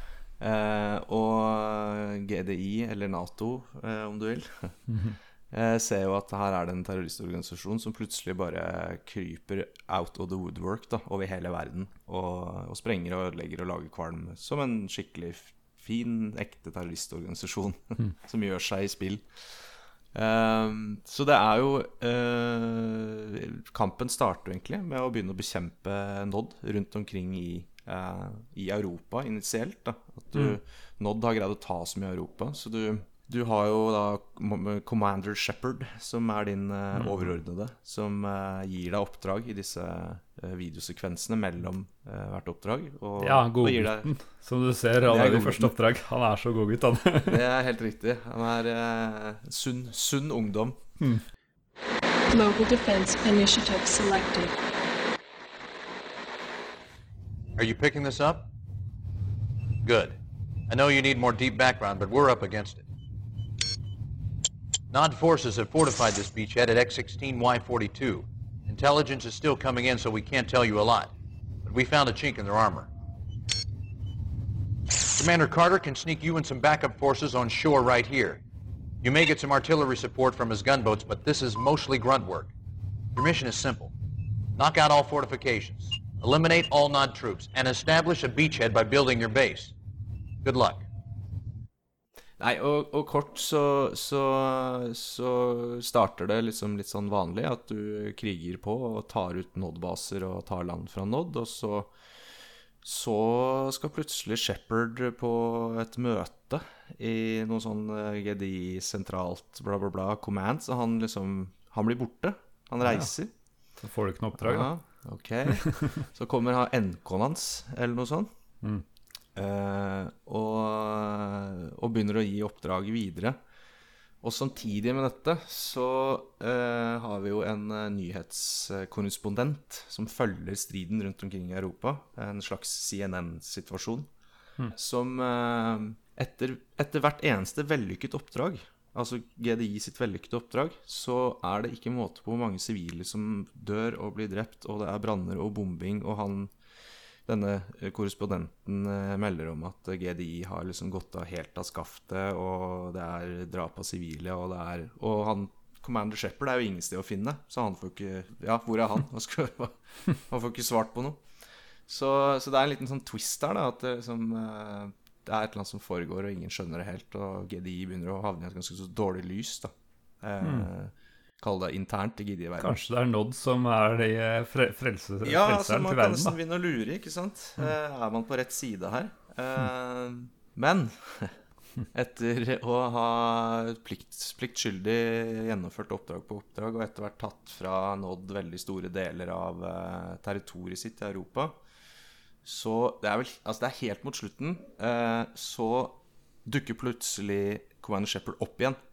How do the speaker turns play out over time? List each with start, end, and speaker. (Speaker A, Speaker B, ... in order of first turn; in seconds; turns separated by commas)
Speaker A: 0.4-4.8, Speaker B: 4.9-5.2, Speaker A: 5.5-19.3, Speaker A: 20.1-44.1, Speaker B: 36.9-37.2, Speaker B: 43.2-47.4, Speaker A: 45.0-45.7, Speaker A: 47.2-50.8, Speaker C: 52.3-54.5, Speaker D: 57.6-58.4, Speaker D: 59.8-60.1, Speaker D: 60.7-62.8, Speaker D: 64.9-71.1, Speaker D: 71.6-72.9, Speaker D: 75.1-78.4, Speaker D: 79.0-82.5, Speaker D: 83.1-83.9, Speaker D: 84.6-89.7, Speaker D: 90.4-90.8, Speaker A: 92.4-101.9, Speaker A: 102.8-113.3, Speaker B: 112.8-113.1, Speaker B: 113.8-114.7, Speaker A: 114.4-118.3, Speaker A: 119.3-123.4, Speaker A: 124.2-134.1, Speaker A: 134.7-146.5, Speaker A: 147.2-161.2, Speaker A: 161.9-169.7, Speaker A: 170.2-172.8, Speaker B: 170.4-170.7, Speaker B: 172.6-176.3, Speaker A: 175.2-181.3, Speaker A: 181.9-191.6, Speaker A: 192.4-198.8